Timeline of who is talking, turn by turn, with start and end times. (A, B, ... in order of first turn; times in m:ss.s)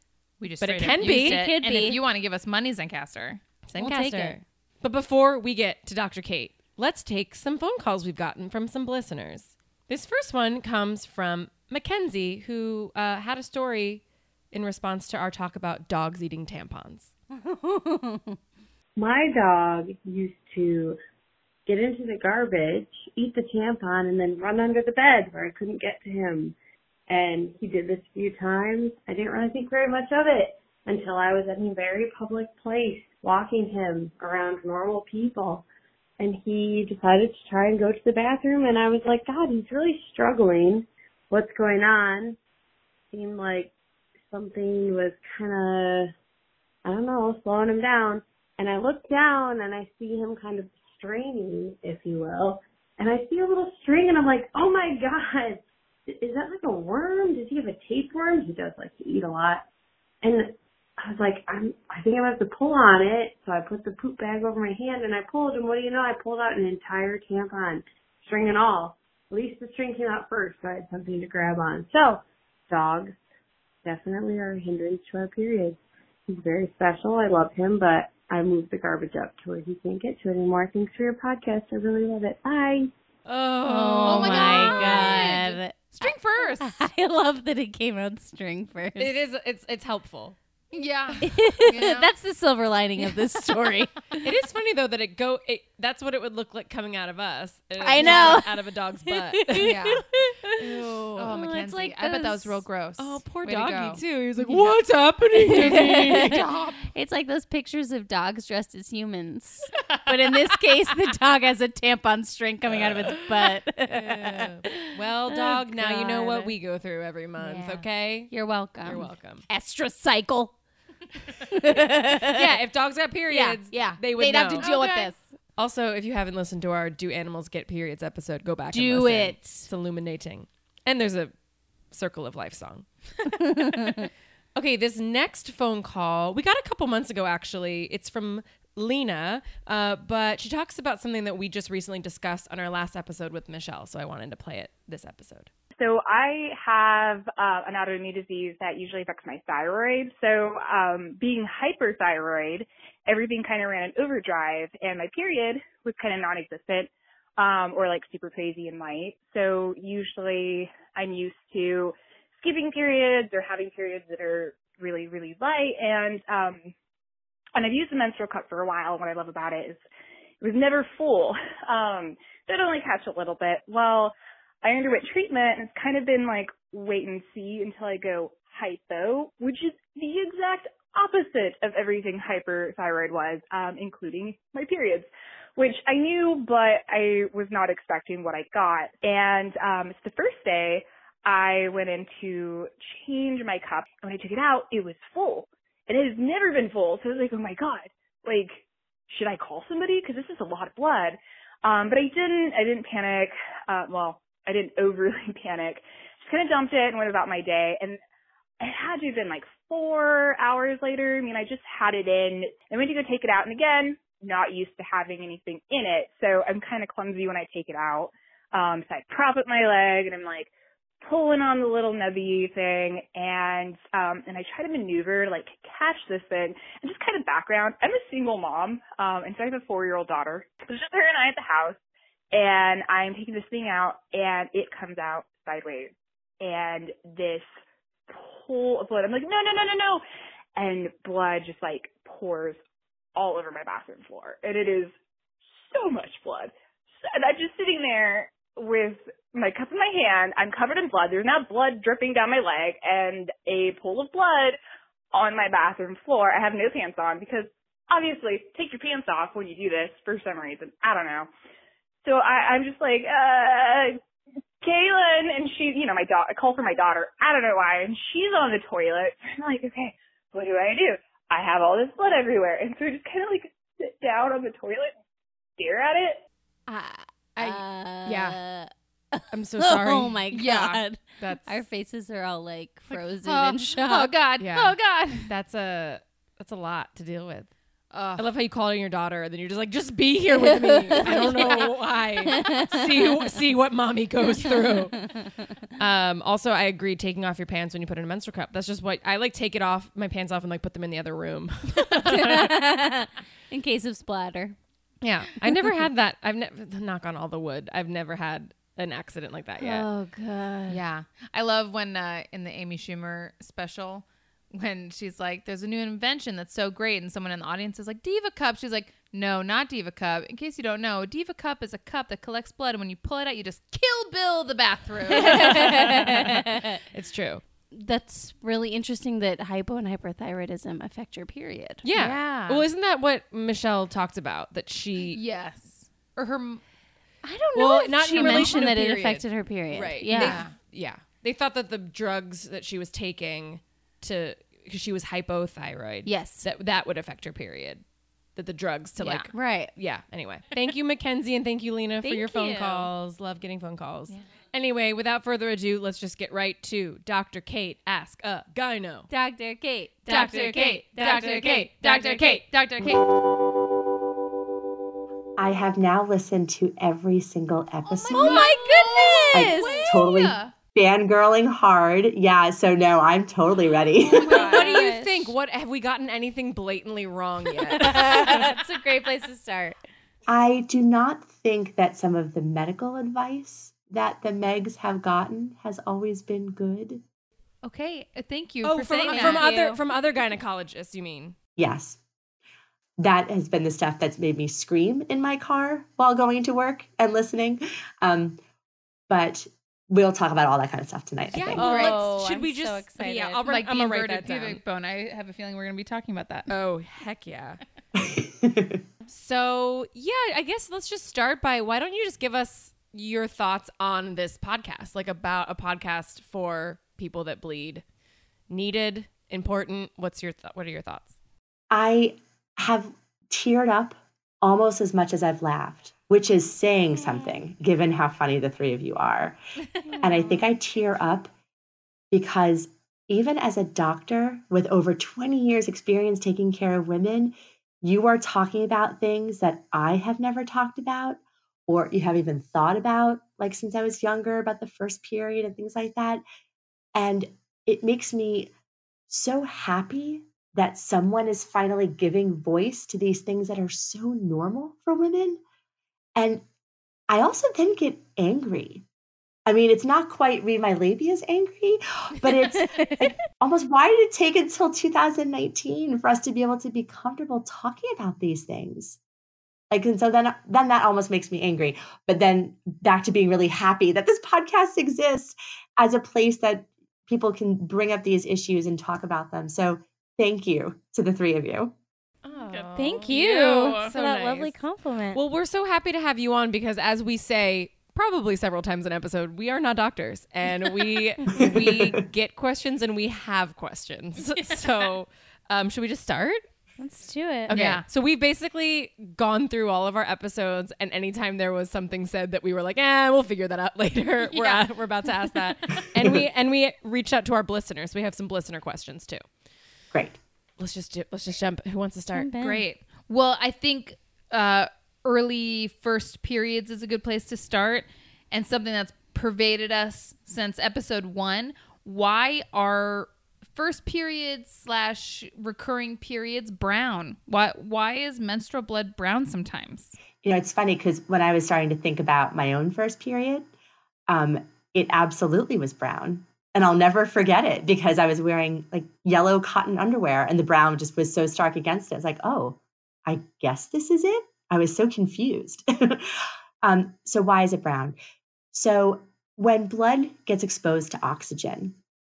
0:00.4-0:03.6 A
0:00.6-0:01.4 B
0:00.8-0:02.0 C
0:03.7-0:17.1 B
0:03.8-0:04.4 C
0:17.3-0:18.4 C
0:19.0-0:21.0 D
0:21.6-0:26.6 D
0:27.1-0:35.7 D
0:36.2-0:42.4 D
0:43.1-0:43.7 D
0:44.3-0:46.1 D
0:46.8-0:59.6 D
1:00.2-1:13.2 D
1:13.8-1:22.9 D
1:23.2-1:25.4 B
1:23.6-1:29.2 C
1:24.0-1:26.8 A
1:29.0-1:30.4 B
1:30.7-1:32.1 A
1:31.2-1:34.1 C
1:34.2-1:39.7 B
1:37.8-1:38.6 C
1:38.0-1:38.4 A
1:39.1-1:42.6 C
1:39.6-1:40.1 A
1:40.5-1:41.4 B
1:41.2-1:44.8 A
1:43.0-1:46.7 B
1:45.4-1:46.8 A
1:45.5-1:56.5 C
1:52.8-1:53.1 B
1:53.9-1:59.4 B
1:57.4-2:00.6 C
2:01.5-2:02.5 C
2:02.3-2:04.7 B
2:03.3-2:05.2 C
2:04.6-2:05.1 A
2:05.6-2:11.3 B
2:08.7-2:09.7 C
2:11.9-2:25.5 B
2:25.8-2:46.7 E
2:47.6-2:49.8 E
2:50.4-3:28.0 E
3:28.6-3:40.5 E
3:41.0-3:51.8 E
3:52.3-3:57.4 E
3:58.1-4:00.0 E
4:00.6-4:02.6 E
4:03.2-4:04.9 E
4:05.7-4:06.5 E
4:07.0-4:14.6 E
4:15.1-4:21.3 E
4:22.0-4:24.0 E
4:24.6-4:34.9 E
4:35.6-4:36.2 E
4:36.7-4:44.1 C
4:37.4-4:38.4 B
4:39.3-4:40.2 B
4:40.3-4:41.5 A
4:42.9-4:45.3 A
4:44.4-4:47.5 B
4:47.9-4:48.3 A
4:48.2-4:55.0 B
4:50.4-4:51.7 C
4:50.9-4:51.6 A
4:52.4-4:52.7 C
4:55.8-5:02.5 B
5:02.0-5:04.6 C
5:05.0-5:09.9 B
5:09.6-5:10.8 C
5:10.7-5:26.3 A
5:25.1-5:26.7 C
5:25.2-5:26.4 B
5:26.9-5:27.4 B
5:27.7-5:31.8 C
5:31.8-5:35.2 B
5:31.9-5:32.7 A
5:35.1-5:36.6 A
5:37.3-5:38.6 A
5:37.5-5:40.4 C
5:37.5-5:47.8 B
5:40.1-5:40.5 A
5:46.0-5:46.4 C
5:48.4-5:59.1 B
5:49.0-5:49.3 A
5:49.3-5:49.7 C
5:52.0-5:52.9 C
5:59.1-6:02.0 C
6:00.1-6:03.0 A
6:00.3-6:02.4 B
6:05.4-6:08.4 F
6:07.8-6:10.5 A
6:08.1-6:10.0 C
6:09.3-6:14.5 F
6:14.1-6:14.8 A
6:14.1-6:15.3 C
6:14.3-6:18.5 B
6:17.7-6:19.8 C
6:18.3-6:18.6 A
6:20.3-6:27.0 F
6:27.6-6:29.8 A
6:28.6-6:31.4 B
6:29.1-6:29.4 C
6:31.6-6:32.0 F
6:33.0-6:38.4 F
6:39.1-6:41.6 F
6:41.3-6:44.6 B
6:41.5-6:42.0 A
6:41.6-6:43.5 C
6:43.4-6:46.5 A
6:46.5-6:47.6 B
6:47.9-6:48.8 F
6:49.1-6:57.8 B
6:58.5-7:01.1 B
7:01.7-7:09.4 F
7:09.9-7:10.2 C
7:10.0-7:11.3 F
7:12.1-7:26.2 F
7:26.9-7:28.5 F
7:29.1-7:35.4 F
7:36.2-7:36.4 F
7:37.1-7:38.8 F
7:39.4-7:49.0 F
7:42.7-7:42.9 C
7:49.7-8:01.8 F
8:02.2-8:04.6 B
8:02.3-8:03.1 A
8:02.7-8:05.2 C
8:05.1-8:16.4 B
8:11.4-8:11.7 F
8:16.8-8:17.5 C
8:17.5-8:17.8 A
8:17.5-8:29.2 B
8:24.3-8:24.7 A
8:29.9-8:30.2 F
8:30.6-8:32.3 B
8:32.1-8:32.6 C
8:32.4-8:50.0 A
8:50.2-8:53.5 F
8:54.1-9:08.0 F
9:08.5-9:11.8 F